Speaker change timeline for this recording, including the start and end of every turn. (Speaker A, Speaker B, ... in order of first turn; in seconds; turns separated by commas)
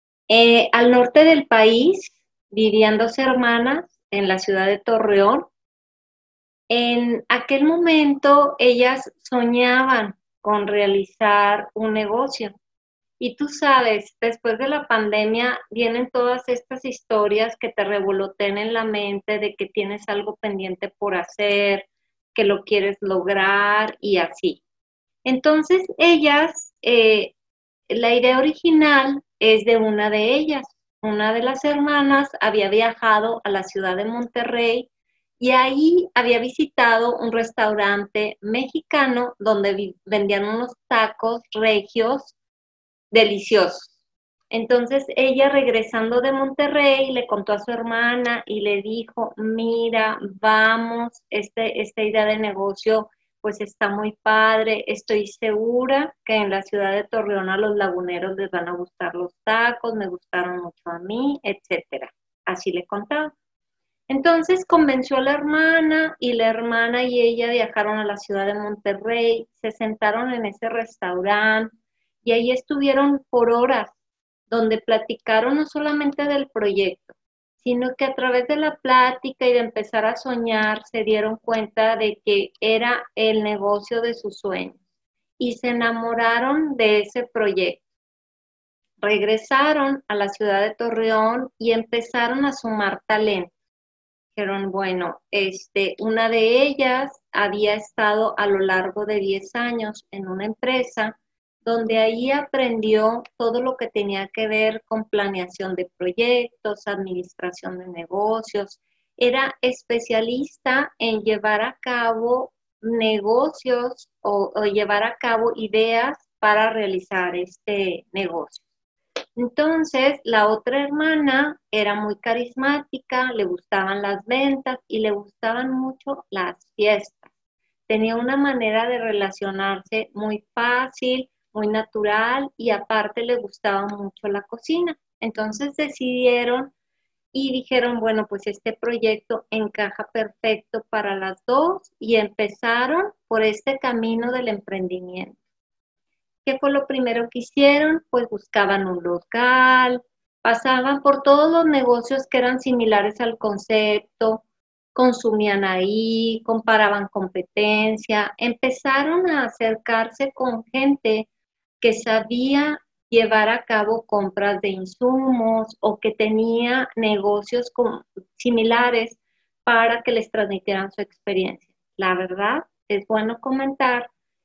Speaker A: 0.3-5.5, Speaker A: 6.7-12.6, Speaker A: 13.2-24.6, Speaker A: 25.2-27.4, Speaker A: 27.9-34.9, Speaker A: 35.4-42.4, Speaker A: 43.1-43.9, Speaker A: 44.5-63.4, Speaker A: 64.1-71.7, Speaker A: 72.2-73.9, Speaker A: 74.5-84.8, Speaker A: 85.4-87.8, Speaker A: 89.0-93.5, Speaker A: 94.4-118.7, Speaker A: 119.4-127.3, Speaker A: 127.9-136.7, Speaker A: 137.3-145.4, Speaker A: 146.4-161.3, Speaker A: 161.8-174.1